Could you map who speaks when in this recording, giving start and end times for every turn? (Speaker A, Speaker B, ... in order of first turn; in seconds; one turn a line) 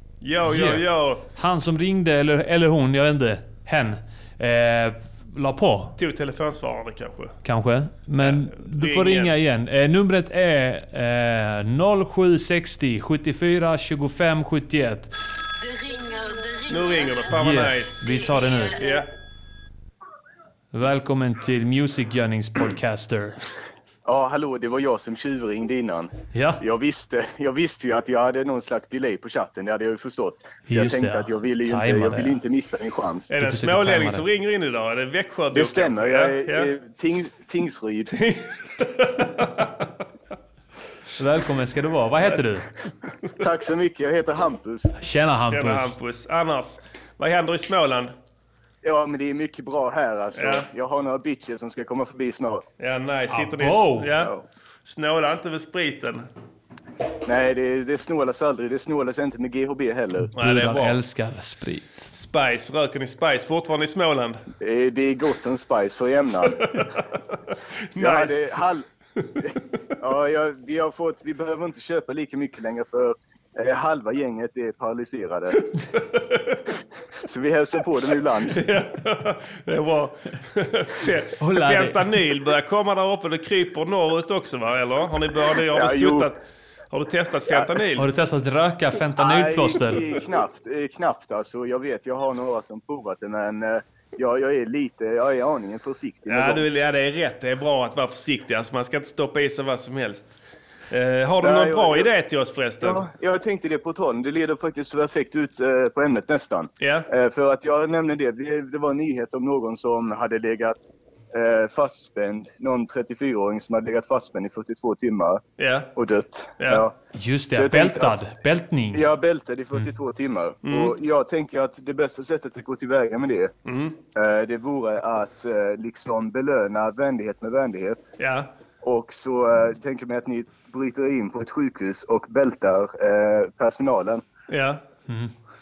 Speaker A: 0.2-1.2
Speaker B: 0.5-0.8
Speaker B: 1.4-6.0
Speaker A: 6.0-7.4
Speaker B: 7.4-15.1
Speaker A: 8.2-9.3
Speaker A: 16.6-18.1
Speaker B: 17.3-18.8
Speaker A: 18.8-19.1
Speaker B: 20.7-23.4
Speaker C: 24.1-33.3
Speaker B: 26.3-26.6
Speaker B: 30.7-32.4
Speaker A: 33.3-36.7
Speaker B: 33.4-34.2
Speaker C: 35.5-38.1
Speaker A: 38.1-39.7
Speaker B: 41.2-42.7
Speaker C: 43.4-44.9
Speaker B: 45.0-45.9
Speaker A: 45.5-48.1
Speaker C: 48.8-52.7
Speaker A: 50.3-50.7
Speaker A: 52.8-54.3
Speaker B: 53.3-54.1
Speaker C: 54.2-54.4
Speaker A: 54.8-56.3
Speaker C: 57.2-60.3
Speaker B: 60.2-62.1
Speaker A: 60.3-61.0
Speaker A: 62.1-64.4
Speaker C: 64.6-66.6
Speaker A: 66.5-67.0
Speaker A: 67.9-68.6
Speaker C: 68.0-68.8
Speaker C: 70.0-75.5
Speaker A: 75.9-76.6
Speaker C: 77.3-78.6
Speaker A: 78.5-86.4
Speaker B: 81.4-82.0
Speaker C: 85.7-86.3
Speaker A: 86.9-88.1
Speaker B: 88.0-90.1
Speaker C: 89.2-96.6
Speaker A: 96.3-100.3
Speaker A: 100.9-103.1
Speaker C: 101.4-102.1
Speaker C: 102.8-115.4
Speaker A: 106.8-107.1
Speaker A: 115.6-115.9
Speaker C: 116.0-116.9
Speaker A: 116.6-116.8
Speaker B: 117.1-119.1
Speaker C: 117.5-118.2
Speaker C: 118.9-123.5
Speaker A: 120.6-120.9
Speaker A: 123.7-124.0
Speaker C: 124.1-128.1
Speaker A: 128.2-128.5
Speaker C: 128.8-134.2
Speaker A: 134.5-134.8